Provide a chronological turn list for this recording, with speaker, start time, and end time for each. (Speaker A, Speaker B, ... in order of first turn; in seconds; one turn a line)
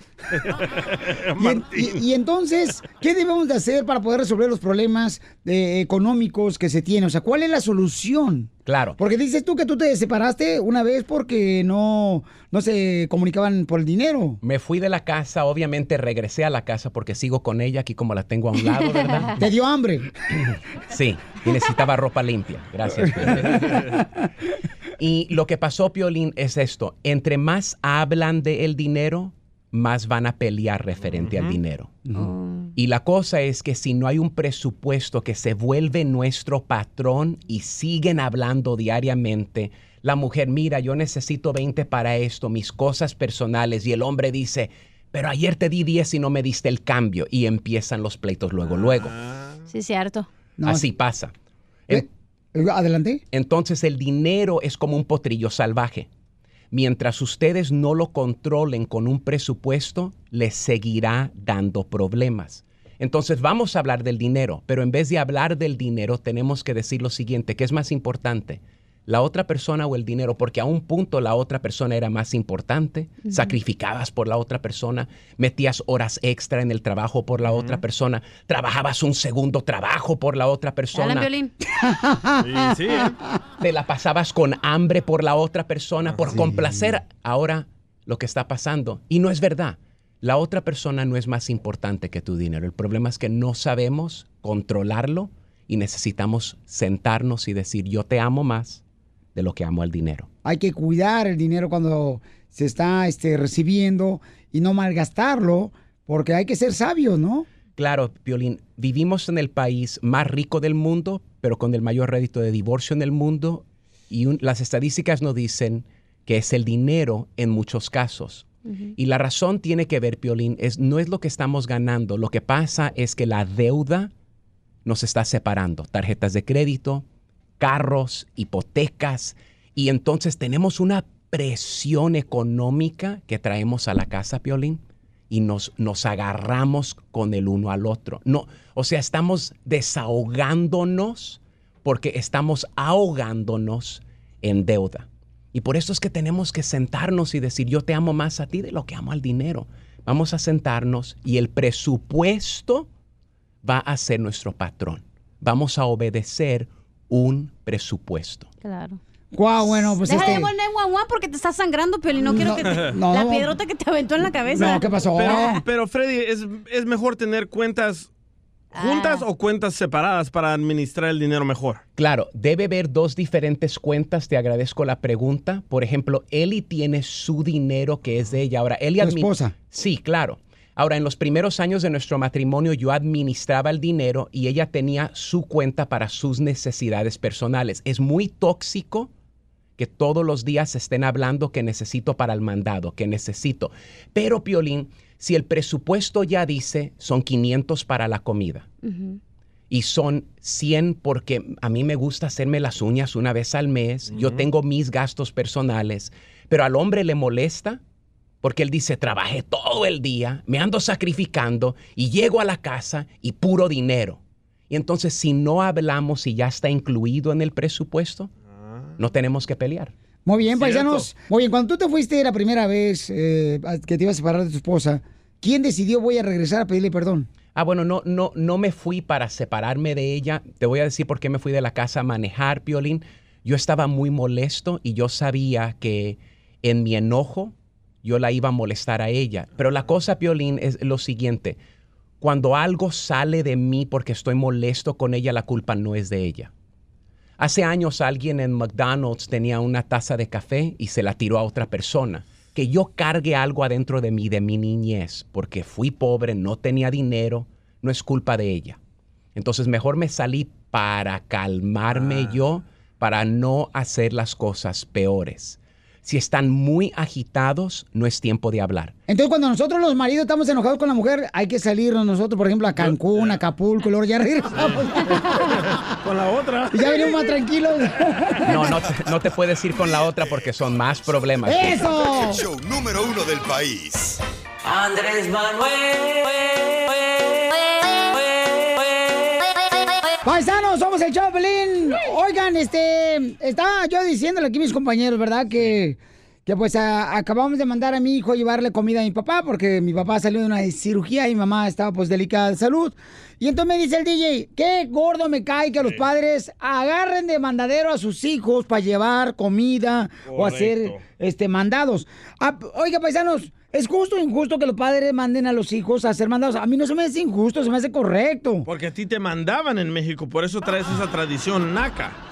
Speaker A: 0.3-2.0
Speaker B: 1.4-14.4
Speaker C: 8.7-9.0
Speaker C: 14.4-19.3
Speaker D: 18.6-19.3
Speaker B: 19.4-20.1
Speaker C: 20.9-23.5
Speaker B: 23.2-24.0
Speaker C: 25.0-31.9
Speaker A: 31.0-31.6
Speaker D: 32.2-32.7
Speaker C: 32.8-49.1
Speaker A: 48.6-49.6
Speaker D: 49.7-50.3
Speaker B: 50.6-50.8
Speaker C: 50.6-51.3
Speaker B: 51.9-53.2
Speaker C: 53.3-56.1
Speaker C: 56.7-81.3
Speaker D: 73.2-73.6
Speaker A: 77.5-77.8
Speaker D: 80.9-81.5
Speaker B: 81.8-83.1
Speaker A: 82.4-83.2
Speaker C: 83.6-98.8
Speaker A: 86.0-86.4
Speaker B: 86.3-86.9
Speaker C: 99.3-100.3
Speaker B: 100.4-107.5
Speaker C: 107.8-124.1
Speaker D: 118.7-118.9
Speaker C: 124.8-127.0
Speaker C: 127.6-152.9
Speaker C: 153.6-158.5
Speaker D: 158.6-159.0
Speaker B: 159.3-160.5
Speaker D: 159.7-165.6
Speaker B: 162.2-163.5
Speaker B: 164.6-165.6
Speaker A: 165.2-168.1
Speaker D: 168.8-169.3
Speaker A: 168.8-171.8
Speaker C: 172.0-189.1
Speaker B: 179.0-179.6
Speaker C: 189.8-198.7
Speaker D: 198.8-199.2
Speaker C: 199.7-207.8
Speaker A: 204.1-204.5
Speaker C: 208.4-218.3
Speaker A: 218.5-219.0
Speaker C: 219.0-219.9
Speaker B: 220.3-227.3
Speaker A: 220.5-221.1
Speaker C: 227.6-241.6
Speaker C: 242.2-246.5
Speaker C: 247.4-258.8
Speaker C: 259.4-268.9
Speaker A: 261.9-262.5
Speaker B: 269.1-275.2
Speaker A: 272.8-273.4
Speaker A: 274.5-274.9
Speaker A: 275.7-277.0
Speaker B: 276.7-278.6
Speaker C: 278.5-281.9
Speaker E: 279.8-280.5
Speaker B: 281.4-282.4
Speaker E: 282.0-284.2
Speaker F: 284.6-289.5
Speaker B: 290.2-318.7
Speaker A: 310.3-311.0
Speaker A: 318.7-322.2